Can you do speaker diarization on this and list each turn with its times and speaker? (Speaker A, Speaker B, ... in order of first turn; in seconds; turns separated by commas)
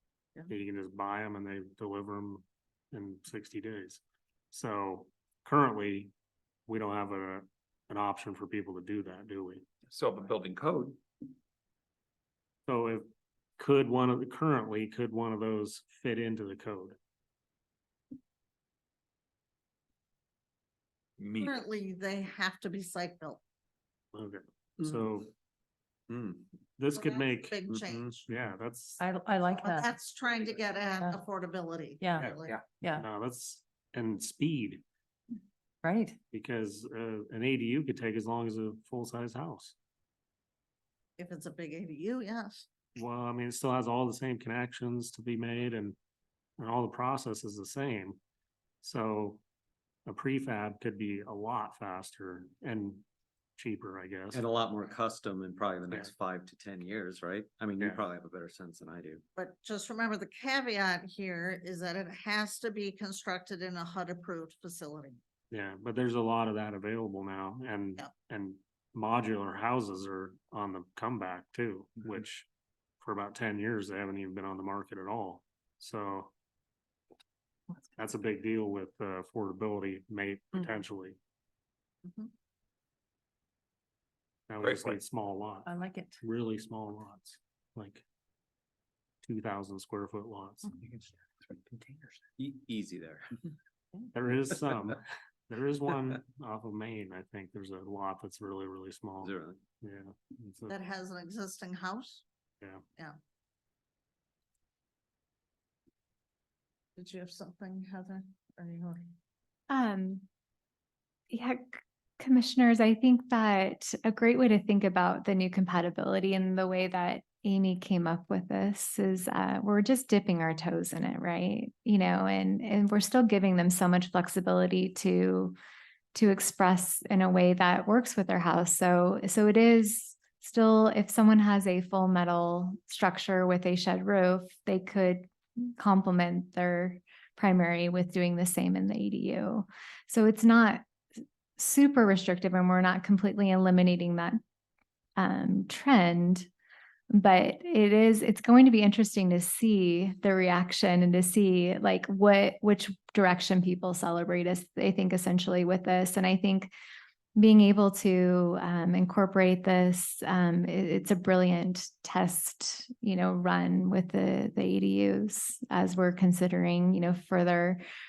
Speaker A: 0.5-6.1, Speaker A: 6.7-9.6, Speaker B: 9.9-11.0, Speaker A: 12.7-13.1, Speaker A: 13.6-17.0, Speaker B: 21.2-21.6, Speaker C: 21.4-23.4, Speaker A: 24.1-25.3, Speaker D: 26.1-26.4, Speaker A: 26.8-27.6, Speaker C: 26.9-28.3, Speaker D: 27.9-28.1, Speaker A: 28.3-29.0, Speaker E: 29.0-29.9, Speaker C: 29.5-32.6, Speaker E: 32.0-33.0, Speaker A: 32.2-34.8, Speaker E: 35.8-36.2, Speaker A: 36.3-39.7, Speaker C: 41.2-42.7, Speaker A: 43.0-46.0, Speaker A: 46.6-48.2, Speaker A: 48.8-49.4, Speaker A: 50.0-53.0, Speaker A: 53.6-54.4, Speaker D: 54.3-59.2, Speaker A: 55.9-56.1, Speaker A: 57.8-58.0, Speaker C: 59.4-65.2, Speaker A: 65.5-72.5, Speaker A: 73.0-76.3, Speaker A: 78.0-81.2, Speaker C: 82.0-82.3, Speaker A: 84.5-85.7, Speaker B: 84.6-85.0, Speaker E: 85.6-86.2, Speaker A: 86.2-88.0, Speaker A: 89.2-90.7, Speaker B: 90.8-92.2, Speaker D: 92.4-93.3, Speaker A: 94.1-100.8, Speaker D: 99.2-99.6, Speaker C: 100.7-102.2, Speaker C: 107.0-109.1, Speaker F: 109.7-110.2, Speaker F: 111.3-125.5, Speaker F: 126.1-140.8, Speaker F: 141.6-144.4, Speaker F: 145.2-146.5, Speaker F: 147.1-156.7, Speaker F: 157.3-167.8